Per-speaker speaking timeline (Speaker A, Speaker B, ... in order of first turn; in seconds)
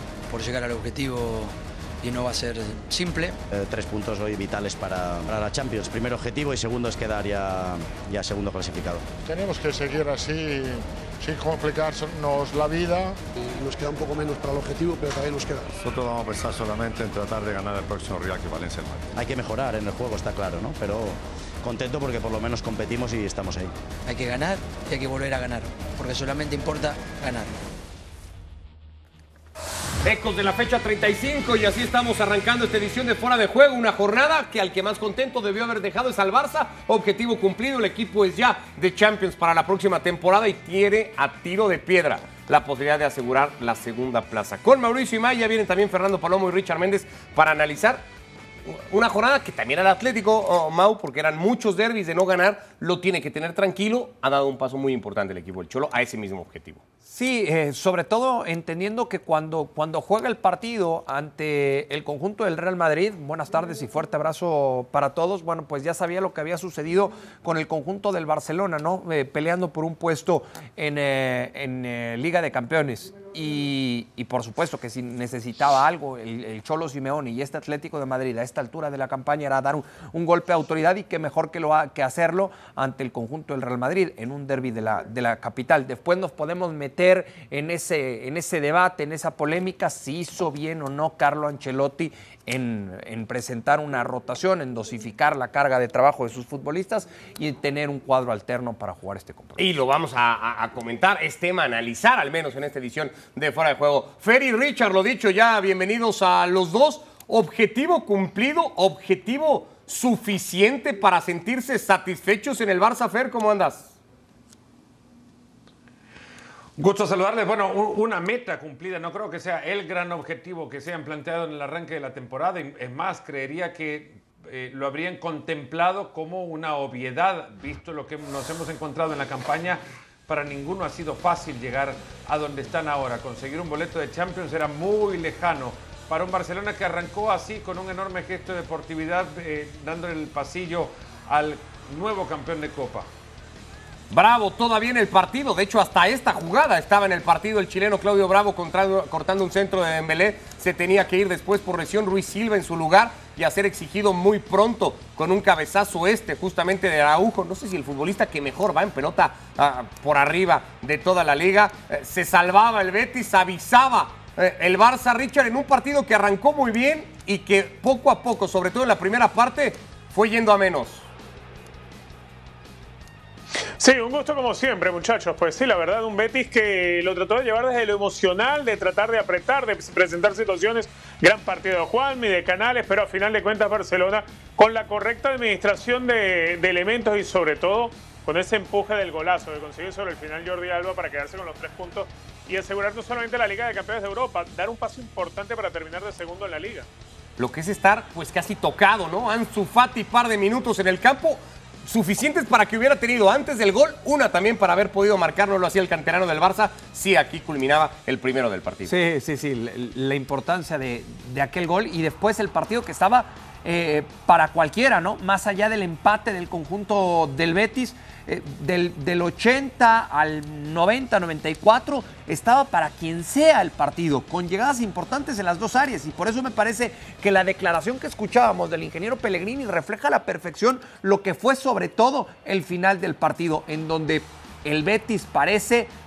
Speaker A: 0.3-3.4, 24.1-27.6
Speaker B: 3.5-9.0, 19.1-23.7
Speaker C: 9.2-13.2
Speaker D: 13.3-15.7
Speaker E: 15.8-19.1
Speaker F: 30.0-48.0, 48.7-56.8, 99.6-113.9, 144.1-171.1, 197.4-208.9
Speaker G: 57.0-99.6, 208.8-235.9
Speaker H: 116.8-143.1
Speaker I: 173.8-196.9